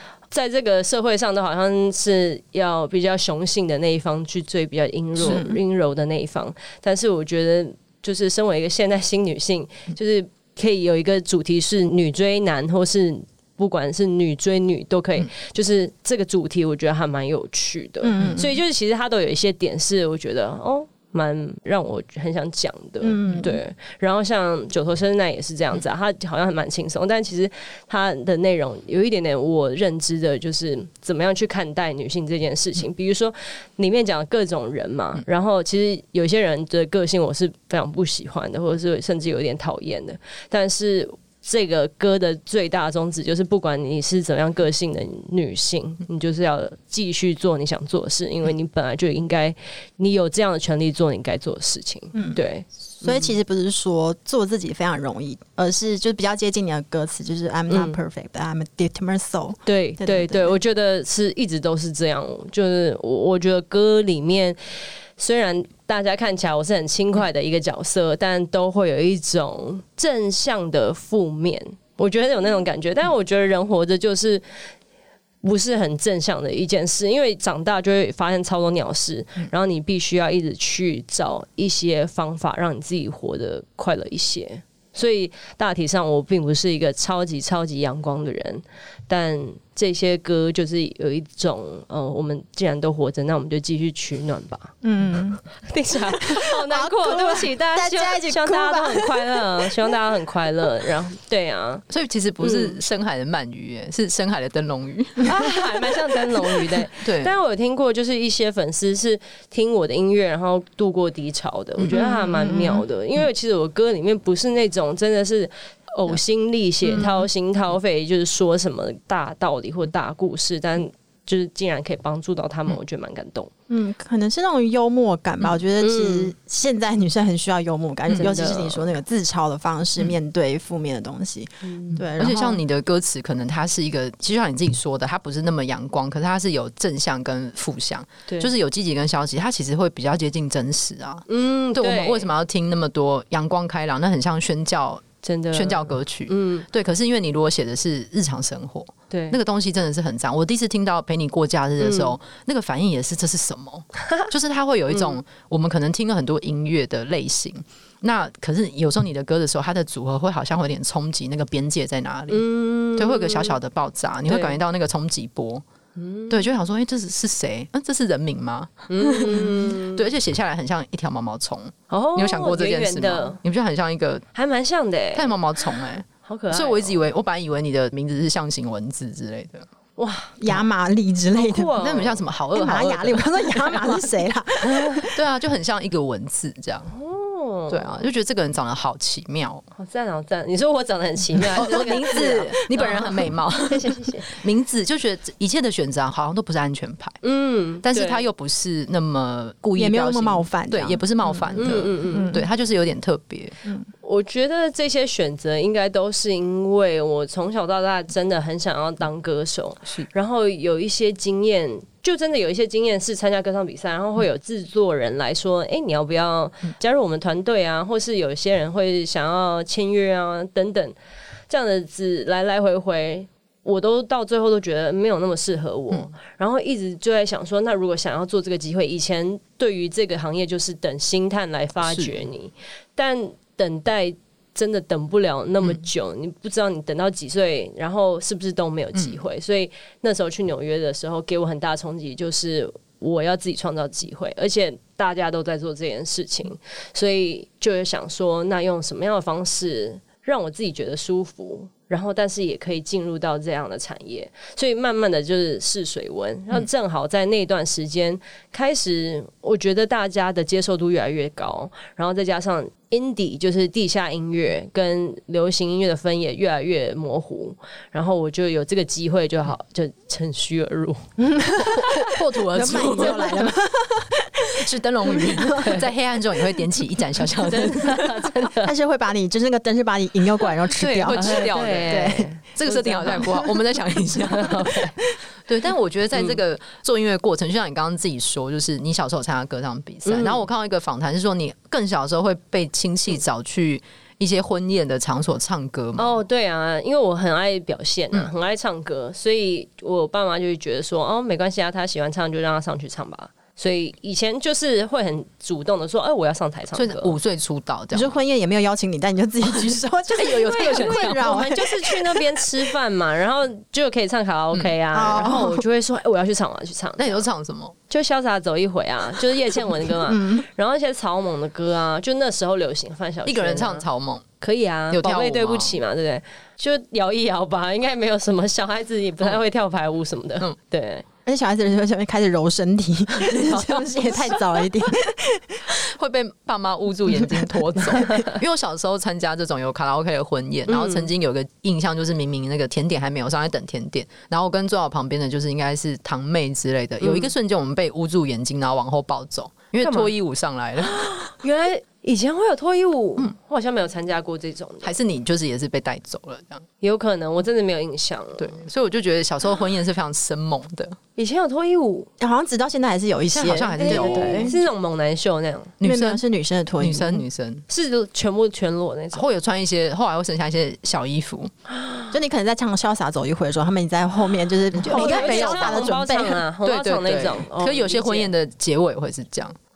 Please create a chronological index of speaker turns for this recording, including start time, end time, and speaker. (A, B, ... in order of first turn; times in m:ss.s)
0:00.3-0:53.4 A
0:05.2-0:05.6 B
0:18.0-0:18.6 B
0:23.0-0:23.6 B
0:52.1-0:52.4 B
0:53.0-1:00.6 B
0:57.7-0:58.0 A
0:59.6-1:14.4 A
1:15.4-1:34.8 A
1:34.8-1:35.4 B
1:35.6-1:41.8 A
1:36.1-1:39.4 B
1:41.9-1:45.7 C
1:42.4-1:42.8 A
1:45.2-2:03.5 A
1:47.0-1:47.3 C
1:51.8-1:52.5 C
1:51.9-1:52.8 B
1:56.8-1:57.3 C
2:03.7-2:12.6 B
2:05.8-2:06.3 A
2:08.1-2:08.9 A
2:11.6-2:12.0 A
2:12.2-2:45.6 C
2:21.3-2:22.3 A
2:25.2-2:26.7 A
2:29.1-2:29.4 A
2:31.8-2:32.1 A
2:42.3-2:43.6 A
2:44.3-2:44.6 A
2:46.0-2:46.4 A
2:46.3-2:54.2 C
2:48.9-2:50.1 A
2:51.9-2:53.4 A
2:54.3-2:55.4 A
2:55.2-2:59.7 C
2:56.2-2:57.0 A
3:00.0-3:00.4 A
3:00.4-3:01.7 B
3:01.3-3:02.2 A
3:01.8-3:04.0 C
3:02.5-3:05.1 B
3:05.0-3:06.9 C
3:06.9-3:07.9 A
3:07.7-3:09.6 C
3:09.8-3:14.3 A
3:11.5-3:17.2 C
3:17.2-3:18.2 A
3:17.8-3:23.6 C
3:19.8-3:22.4 B
3:21.6-3:22.4 A
3:24.0-3:41.0 A
3:41.5-4:31.1 A
3:51.8-3:52.2 C
4:31.3-4:31.9 B
4:31.7-4:33.6 C
4:32.5-4:35.7 B
4:34.6-4:38.3 C
4:35.6-4:35.9 A
4:37.4-4:38.7 A
4:38.6-4:42.3 B
4:40.7-4:44.8 C
4:41.1-4:43.3 A
4:44.3-4:45.0 A
4:45.5-4:56.2 C
4:50.0-4:50.4 A
4:56.0-5:07.2 A
5:06.7-5:08.2 C
5:07.9-5:12.2 B
5:09.6-5:11.4 C
5:10.2-5:17.2 A
5:14.9-5:15.6 B
5:17.0-5:17.8 C
5:17.9-5:23.9 A
5:20.1-5:20.5 B
5:23.3-5:24.3 C
5:24.4-5:31.0 A
5:24.9-5:25.8 C
5:31.3-5:35.7 B
5:33.2-5:34.9 C
5:35.7-5:51.2 C
5:37.2-5:38.2 B
5:40.7-5:41.1 A
5:47.0-5:47.3 A
5:49.8-5:50.1 A
5:50.8-5:55.0 A
5:54.8-5:56.6 C
5:56.8-5:58.6 A
5:58.4-6:01.0 C
6:01.2-6:02.1 A
6:02.2-6:04.5 B
6:03.3-6:04.6 C
6:03.8-6:05.8 A
6:05.8-6:06.2 C
6:05.8-6:07.2 B
6:06.8-6:07.6 C
6:07.7-6:09.2 A
6:09.1-6:11.5 C
6:11.7-6:12.2 A
6:12.1-6:16.4 B
6:14.7-6:16.0 C
6:14.8-6:18.3 A
6:16.6-6:19.6 C